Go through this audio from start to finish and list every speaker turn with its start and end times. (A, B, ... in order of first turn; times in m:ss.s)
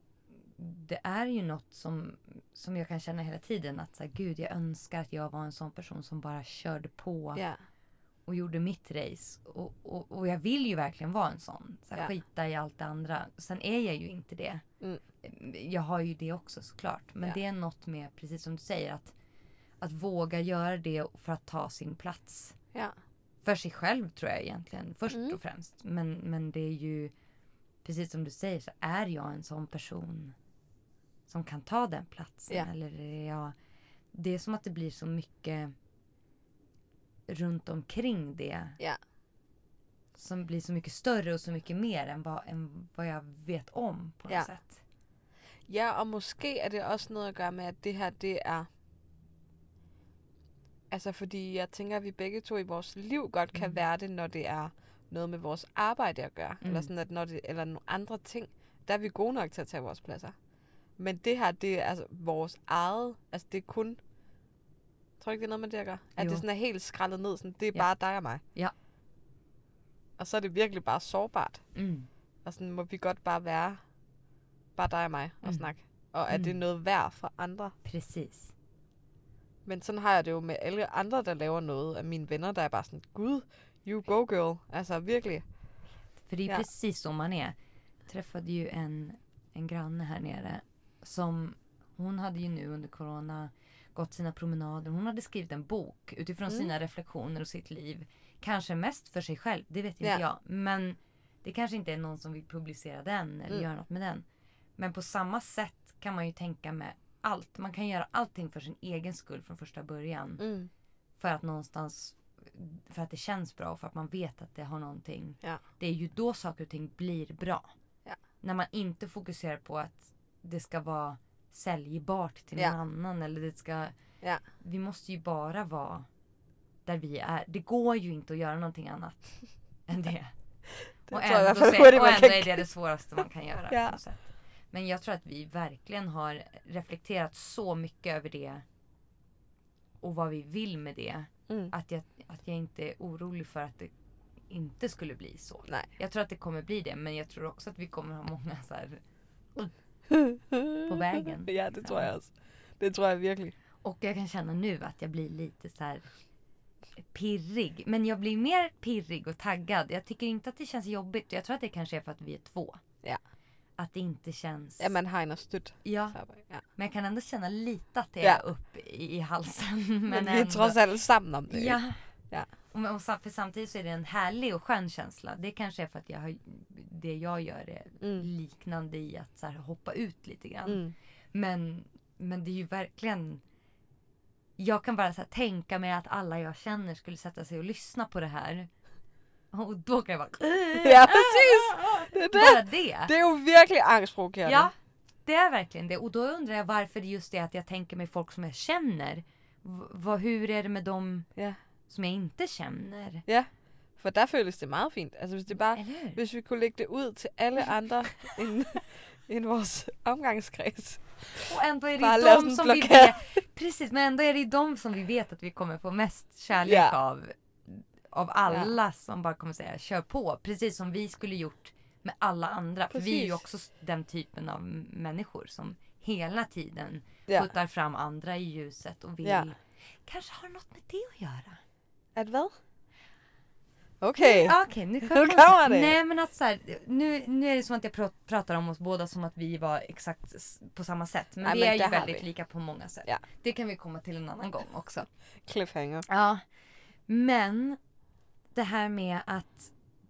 0:00.4-0:07.4 A
0:07.3-0:07.6 B
0:08.2-0:14.6 A
0:15.2-0:19.1 A
0:19.8-0:22.6 A
0:23.4-0:27.1 A
0:25.1-0:25.4 B
0:27.8-0:30.3 A
0:31.3-0:33.5 A
0:34.1-0:35.7 A
0:37.3-0:38.8 A
0:40.1-0:44.8 A
0:45.7-0:48.7 B
0:50.9-1:00.3 B
0:56.6-0:56.9 A
1:01.0-1:04.0 B
1:05.2-1:08.4 B
1:06.2-1:06.4 A
1:08.4-1:08.7 A
1:10.2-1:11.6 B
1:11.7-1:12.1 A
1:12.4-1:13.8 B
1:14.8-1:17.7 B
1:16.3-1:16.6 A
1:17.8-1:18.5 A
1:19.6-1:25.4 B
1:26.2-1:27.6 A
1:28.1-1:44.2 A
1:44.8-1:50.4 A
1:50.4-1:50.7 B
1:51.2-1:57.7 A
1:58.4-2:03.9 A
2:04.6-2:06.1 A
2:06.8-2:10.3 A
2:10.8-2:12.7 B
2:11.1-2:18.6 A
2:13.7-2:14.0 B
2:20.0-2:23.9 A
2:21.5-2:21.7 B
2:24.5-2:29.0 A
2:30.1-2:33.5 B
2:30.9-2:32.1 A
2:33.8-2:36.0 A
2:37.0-2:42.8 A
2:43.8-2:45.0 A
2:44.8-2:46.6 B
2:45.8-2:46.2 A
2:46.8-2:50.8 A
2:50.1-2:51.8 B
2:51.5-2:52.0 A
2:52.7-3:00.8 A
2:58.0-2:58.3 B
3:00.6-3:00.9 B
3:01.3-3:03.4 A
3:04.6-3:08.7 A
3:09.5-3:13.1 A
3:10.7-3:14.7 B
3:14.4-3:14.7 A
3:15.2-3:21.3 A
3:21.9-3:23.2 A
3:23.2-3:33.4 B
3:25.7-3:26.2 A
3:31.4-3:51.6 A
3:36.6-3:37.0 B
3:42.9-3:43.4 B
3:49.2-3:49.5 B
3:52.2-3:52.5 B
3:54.0-3:56.0 B
3:54.2-4:05.1 A
4:01.4-4:02.2 B
4:05.5-4:06.1 B
4:06.1-4:06.4 A
4:07.1-4:07.8 A
4:08.5-4:09.7 A